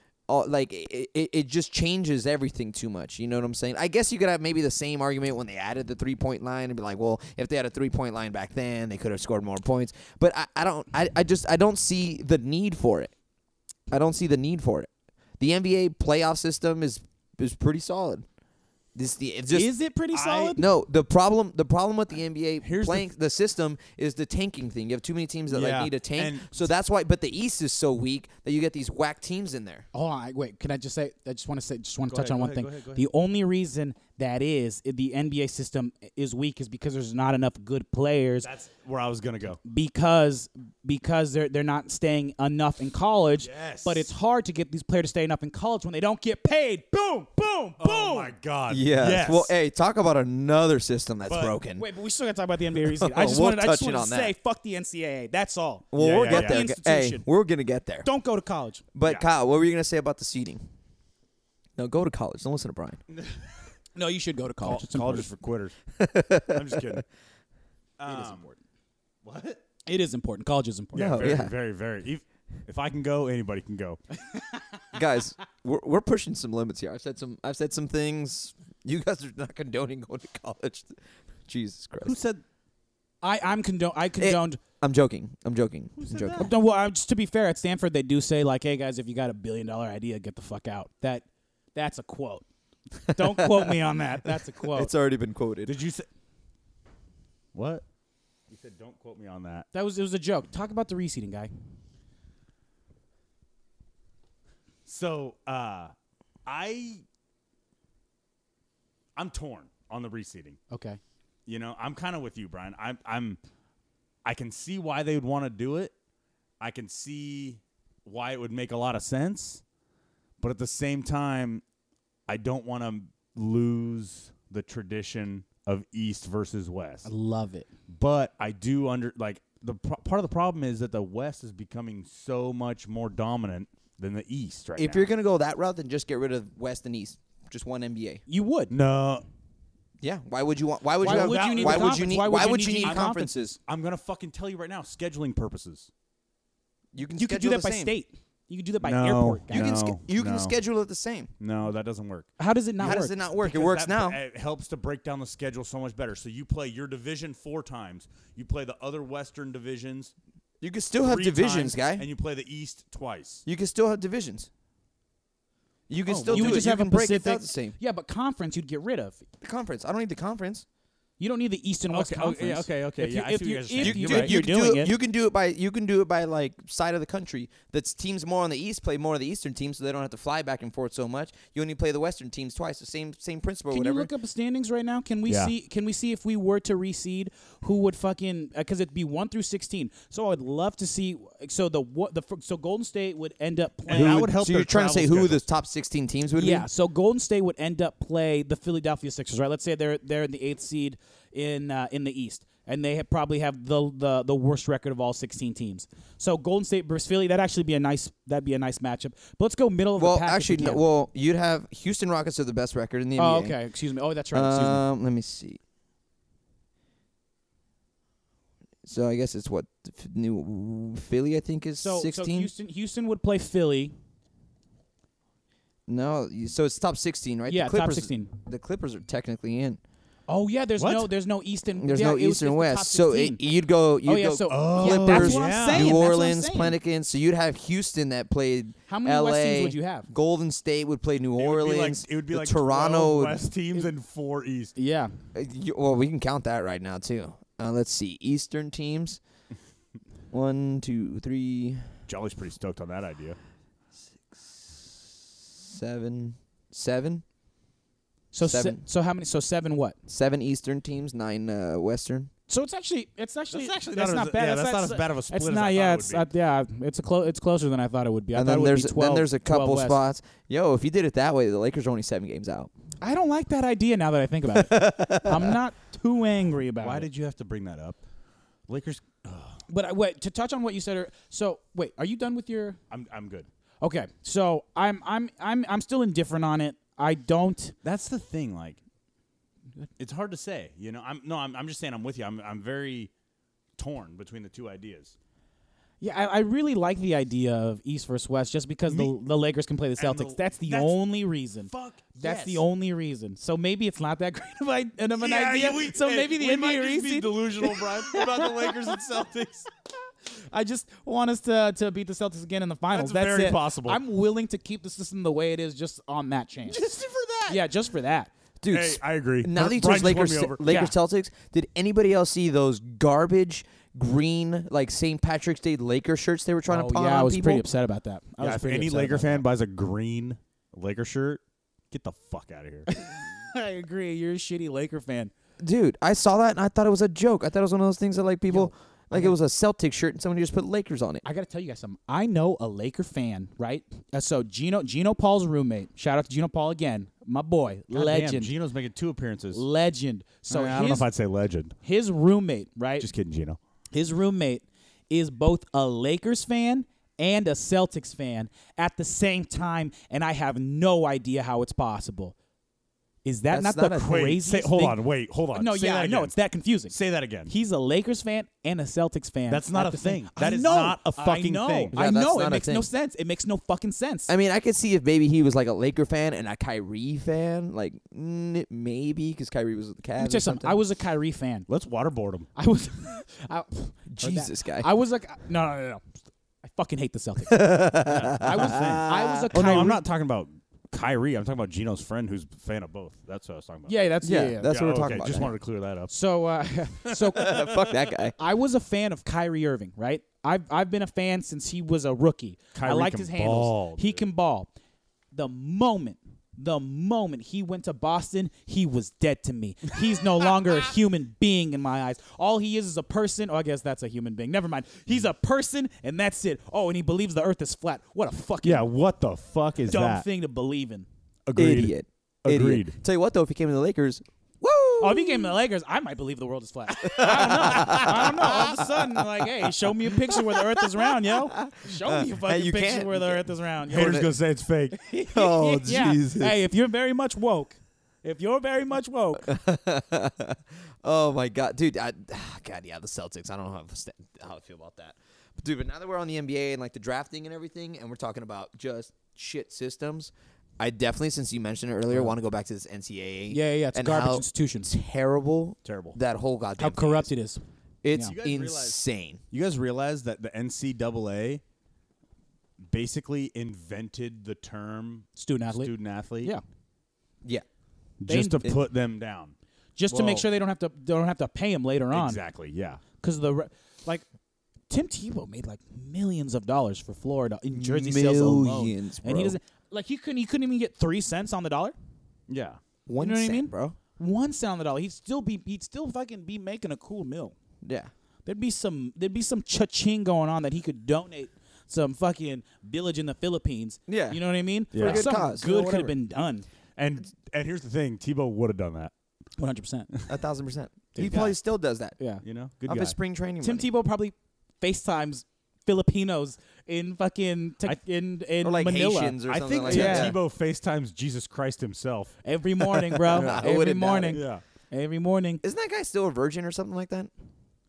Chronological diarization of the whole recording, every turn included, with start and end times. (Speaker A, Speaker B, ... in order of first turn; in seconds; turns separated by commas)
Speaker A: 0.3-13.1, Speaker A: 13.9-14.9, Speaker A: 15.4-18.2, Speaker A: 18.9-19.7, Speaker B: 19.5-20.6, Speaker C: 20.1-20.6, Speaker A: 20.6-29.9, Speaker C: 22.6-23.1, Speaker C: 25.5-26.5, Speaker B: 29.9-38.5, Speaker C: 32.1-33.0, Speaker C: 38.4-39.6, Speaker B: 39.6-48.3, Speaker C: 43.4-44.1, Speaker C: 47.8-49.5, Speaker A: 48.7-51.8, Speaker C: 51.3-51.5, Speaker B: 51.8-57.2, Speaker A: 52.8-54.3, Speaker A: 55.9-58.1, Speaker C: 56.0-56.6, Speaker B: 58.0-58.8, Speaker A: 58.9-60.6, Speaker A: 61.8-63.0, Speaker C: 63.1-63.4, Speaker B: 63.9-65.3, Speaker C: 64.6-65.8, Speaker A: 66.0-66.8, Speaker C: 66.5-67.0, Speaker C: 68.0-68.5, Speaker B: 68.1-68.5, Speaker C: 69.2-69.6, Speaker B: 69.8-71.3, Speaker C: 70.9-74.0, Speaker A: 70.9-71.5, Speaker A: 74.9-82.2, Speaker C: 82.0-82.4, Speaker B: 83.2-84.6, Speaker A: 84.2-86.5, Speaker C: 86.0-86.5, Speaker B: 86.4-92.4, Speaker B: 93.0-94.9, Speaker A: 93.1-93.8, Speaker A: 94.7-95.7, Speaker C: 95.7-96.1, Speaker C: 97.5-97.8, Speaker C: 98.5-99.7, Speaker B: 99.7-101.5, Speaker C: 104.9-105.9, Speaker C: 106.5-107.0, Speaker C: 109.2-110.6, Speaker B: 110.7-111.0, Speaker C: 111.5-113.4, Speaker C: 114.2-115.9, Speaker C: 116.6-119.6, Speaker C: 120.4-121.6, Speaker C: 122.3-127.1, Speaker B: 127.0-127.7, Speaker C: 127.9-135.1, Speaker A: 134.8-138.2, Speaker B: 138.3-138.7, Speaker C: 138.7-139.2, Speaker A: 140.0-143.6, Speaker C: 141.0-143.1, Speaker B: 141.0-143.4, Speaker C: 143.7-145.9, Speaker A: 146.9-147.9, Speaker B: 147.2-149.8, Speaker C: 148.8-150.5, Speaker A: 149.5-151.3, Speaker C: 151.4-152.3, Speaker B: 152.4-153.2, Speaker A: 152.8-154.2, Speaker C: 153.4-160.1, Speaker A: 160.6-162.1, Speaker C: 161.0-163.4, Speaker A: 163.4-164.5, Speaker A: 165.9-167.7, Speaker C: 166.1-166.7, Speaker B: 166.3-169.2, Speaker A: 169.4-170.7, Speaker B: 171.2-174.9, Speaker C: 171.9-174.3, Speaker A: 173.8-184.1, Speaker B: 183.7-194.3, Speaker C: 185.3-185.5, Speaker C: 193.9-195.4, Speaker A: 193.9-196.7, Speaker B: 196.3-210.8, Speaker A: 210.0-213.6, Speaker B: 213.2-214.8, Speaker A: 214.3-215.6, Speaker A: 218.8-222.5, Speaker B: 221.8-223.9, Speaker A: 225.9-229.8, Speaker B: 227.5-228.3, Speaker B: 230.3-233.4, Speaker C: 230.8-231.1, Speaker A: 231.8-243.4, Speaker B: 234.0-236.8, Speaker C: 234.5-236.0, Speaker B: 238.9-240.1, Speaker C: 241.4-244.7, Speaker B: 244.8-245.1, Speaker A: 245.3-249.2, Speaker A: 250.3-251.9, Speaker C: 252.1-253.4, Speaker A: 254.3-254.9, Speaker A: 255.4-257.2, Speaker B: 258.3-260.0, Speaker A: 258.4-258.8, Speaker A: 260.1-262.3, Speaker B: 262.5-270.0, Speaker C: 263.5-266.2, Speaker A: 268.3-272.7, Speaker B: 273.0-277.1, Speaker A: 274.4-275.6, Speaker C: 276.8-278.0, Speaker C: 278.7-279.6, Speaker B: 279.7-282.8, Speaker C: 282.9-283.5, Speaker B: 283.8-287.7, Speaker C: 287.8-288.8, Speaker C: 290.0-293.1, Speaker C: 293.8-295.1, Speaker B: 296.0-301.7, Speaker C: 298.9-299.1, Speaker C: 300.0-301.0, Speaker C: 301.6-302.6, Speaker B: 302.2-308.9, Speaker C: 305.2-309.7, Speaker B: 310.4-316.9, Speaker C: 312.9-314.0, Speaker C: 316.7-317.6, Speaker B: 317.5-318.3, Speaker A: 318.6-327.6, Speaker C: 318.7-320.7, Speaker B: 320.6-320.9, Speaker B: 326.7-329.4, Speaker C: 328.4-332.9, Speaker B: 332.9-335.3, Speaker A: 335.6-341.2, Speaker B: 338.5-339.3, Speaker B: 341.2-348.5, Speaker C: 347.9-349.6, Speaker B: 349.5-351.1, Speaker C: 350.5-351.8, Speaker B: 351.8-353.1, Speaker C: 353.0-353.6, Speaker B: 353.9-362.3, Speaker B: 363.2-365.0, Speaker A: 363.5-364.1, Speaker C: 363.9-366.3, Speaker B: 365.5-366.9, Speaker C: 366.9-367.5, Speaker B: 367.5-374.3, Speaker C: 369.5-371.9, Speaker A: 371.9-372.9, Speaker A: 374.3-380.8, Speaker B: 380.2-381.7, Speaker C: 381.7-382.5, Speaker B: 382.6-386.0, Speaker A: 384.1-384.9, Speaker B: 386.6-390.0, Speaker A: 387.5-389.9, Speaker C: 388.1-393.9, Speaker B: 393.9-394.7, Speaker A: 394.2-395.5, Speaker C: 394.6-396.1, Speaker B: 396.1-397.7, Speaker C: 397.0-397.6, Speaker A: 397.3-398.3, Speaker B: 398.4-404.7, Speaker C: 402.7-404.2, Speaker B: 405.3-418.8, Speaker C: 418.6-420.2, Speaker B: 419.9-421.1, Speaker C: 421.4-422.9, Speaker A: 421.6-425.6, Speaker B: 425.0-434.2, Speaker A: 427.0-434.3, Speaker C: 433.9-435.0, Speaker B: 435.1-439.5, Speaker A: 435.1-436.5, Speaker A: 439.4-457.3, Speaker B: 453.5-454.9, Speaker C: 455.8-456.2, Speaker B: 456.8-457.6, Speaker A: 458.0-459.4, Speaker C: 458.2-459.0, Speaker C: 459.5-461.6, Speaker C: 462.8-466.5, Speaker B: 465.4-466.6, Speaker C: 468.2-469.5, Speaker B: 468.3-468.7, Speaker B: 469.9-472.4, Speaker C: 470.1-470.4, Speaker C: 472.1-473.0, Speaker B: 473.2-474.2, Speaker B: 474.9-481.9, Speaker A: 477.7-479.6, Speaker C: 482.5-482.8, Speaker A: 483.1-483.9, Speaker B: 483.2-487.5, Speaker A: 487.8-488.1, Speaker B: 488.4-496.6, Speaker A: 494.1-494.4, Speaker C: 494.9-495.2, Speaker A: 495.0-496.1, Speaker C: 496.9-499.1, Speaker B: 499.6-500.1, Speaker A: 500.3-502.1, Speaker C: 501.2-501.5, Speaker B: 501.2-501.5, Speaker B: 502.2-502.4, Speaker C: 502.4-503.1, Speaker A: 502.9-503.9, Speaker B: 503.6-510.4, Speaker A: 508.6-510.4, Speaker C: 509.5-512.3, Speaker B: 512.4-515.6, Speaker A: 513.3-514.4, Speaker C: 513.3-513.6, Speaker C: 514.3-514.6, Speaker A: 515.6-517.3